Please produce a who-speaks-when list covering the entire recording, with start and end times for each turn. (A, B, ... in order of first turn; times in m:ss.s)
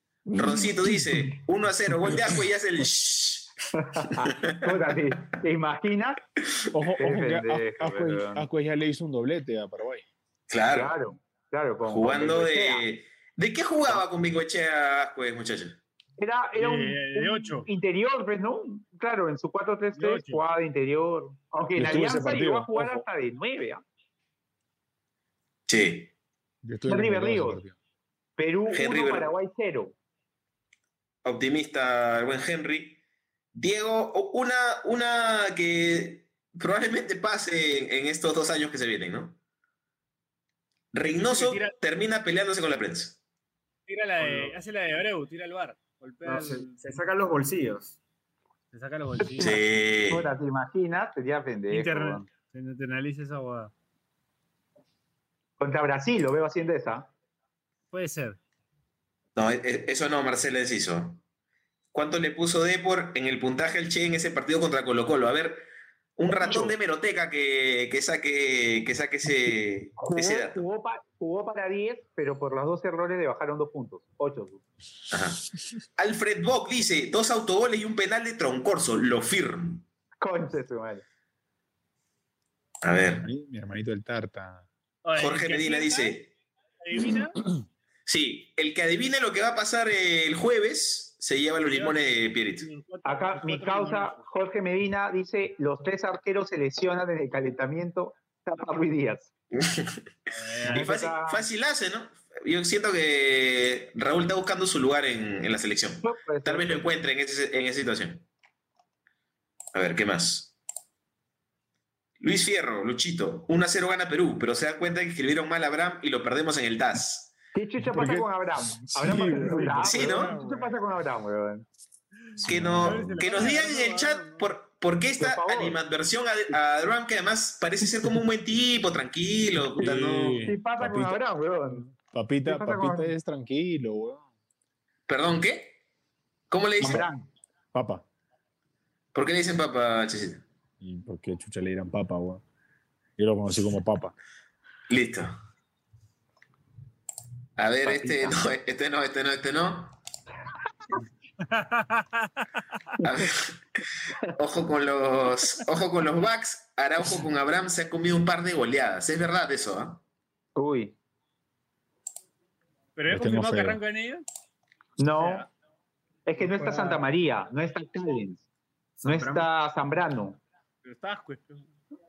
0:00.3-0:00.7 A
0:00.3-0:03.5 B
0:03.8-0:06.2 C
0:04.2-0:04.8 B
0:06.7-0:10.1 A
0:07.0-0:08.5 C
0:10.5-0:11.0 B
0:10.7-0:12.8 C
0:11.9-0:15.8 B
0:16.2-0:23.8 C
0:16.6-0:17.7 D
0:20.0-0:20.4 D
0:21.8-0:23.0 A
0:25.7-0:26.1 B
0:26.6-0:27.8 A
0:26.9-0:27.6 C
0:28.4-0:30.0 C
0:28.7-0:29.3 B
0:31.2-0:33.0 B
0:33.5-0:39.4 B
0:40.9-0:43.2 B
0:41.1-0:41.7 D
0:43.9-0:46.8 D
0:44.2-0:44.6 E
0:46.2-0:48.0 E
0:48.7-0:49.6 D
0:49.4-0:50.3 B
0:50.1-0:52.3 C
0:51.7-0:53.7 D
0:55.6-0:57.1 C
0:57.9-0:58.4 D
0:59.4-1:01.2 B
1:01.9-1:05.7 B
1:06.2-1:10.6 B
1:06.4-1:06.7 C
1:10.0-1:14.6 C
1:15.1-1:15.4 B
1:16.0-1:19.8 B
1:20.2-1:21.0 C
1:22.8-1:23.3 B
1:23.2-1:24.7 A
1:25.0-1:26.2 D
1:25.2-1:26.3 B
1:26.8-1:27.4 D
1:28.1-1:32.7 B
1:31.7-1:34.2 D
1:33.0-1:39.3 C
1:39.5-1:40.0 B
1:40.3-1:40.9 D
1:40.6-1:48.2 B
1:40.7-1:41.4 C
1:46.0-1:46.9 C
1:49.7-1:50.5 B
1:52.2-1:57.3 B
1:57.5-2:01.7 C
1:57.8-2:00.6 A
1:59.9-2:00.3 B
2:02.4-2:03.2 A
2:02.4-2:10.5 B
2:02.8-2:04.5 D
2:05.2-2:05.8 C
2:09.8-2:11.2 A
2:10.4-2:11.8 C
2:11.9-2:14.3 A
2:12.5-2:13.1 C
2:15.1-2:15.8 B
2:16.5-2:17.1 B
2:16.8-2:17.3 C
2:17.7-2:18.0 A
2:19.1-2:20.4 B
2:20.8-2:22.4 A
2:23.2-2:24.2 A
2:24.9-2:25.4 B
2:27.6-2:30.0 B
2:27.8-2:28.4 C
2:31.5-2:32.4 D
2:33.0-2:33.6 B
2:34.4-2:40.0 B
2:40.6-2:41.0 C
2:43.0-2:44.2 D
2:43.1-2:43.8 A
2:45.0-2:45.5 C
2:45.1-2:45.5 D
2:46.3-2:48.4 C
2:46.4-2:47.0 D
2:49.0-2:49.4 D
2:49.0-2:50.4 C
2:49.1-2:49.4 E
2:50.8-2:51.7 D